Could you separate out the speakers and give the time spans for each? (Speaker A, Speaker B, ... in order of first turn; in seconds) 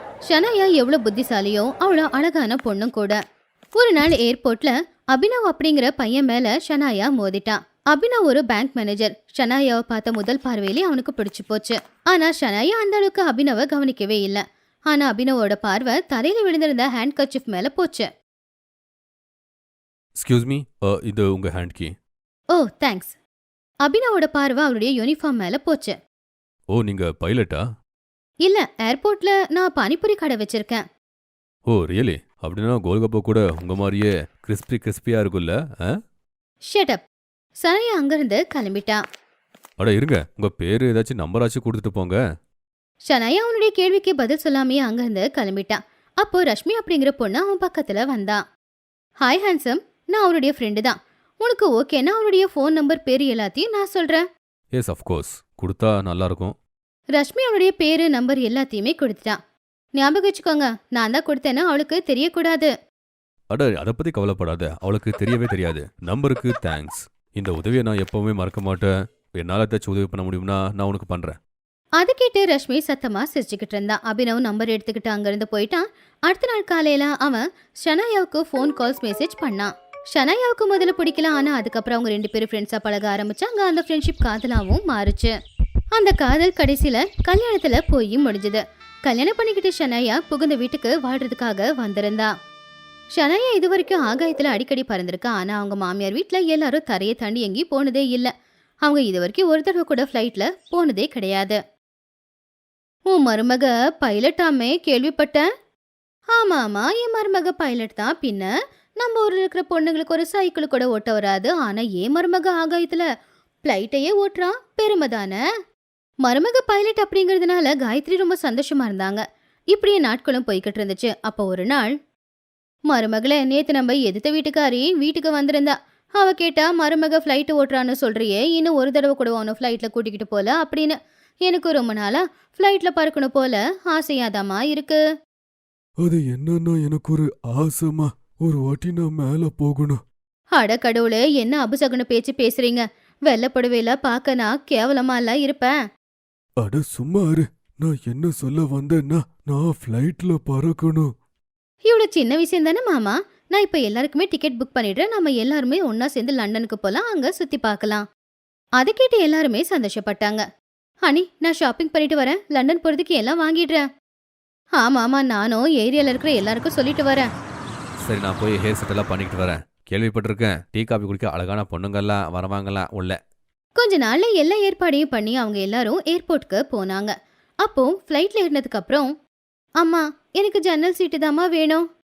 Speaker A: 0.3-3.2, 3.8-18.1, 22.5-23.1, 23.8-26.0, 28.4-30.9, 36.7-37.0, 37.6-39.0, 43.0-48.5, 49.2-54.2, 57.1-59.4, 60.0-62.7, 72.0-85.3, 85.9-92.3, 93.1-98.3, 98.8-101.6, 103.1-105.5, 106.3-113.1, 113.6-115.4, 116.2-121.9, 122.9-135.0, 140.5-145.7, 151.8-158.0, 158.8-160.4, 161.0-163.9, 164.8-167.3, 173.8-179.1, 179.8-181.8
Speaker B: 20.2-21.9, 26.7-27.6, 31.7-35.9, 39.8-42.2, 54.7-56.6, 63.5-71.4, 168.0-173.2
Speaker C: 136.0-140.0, 146.6-151.1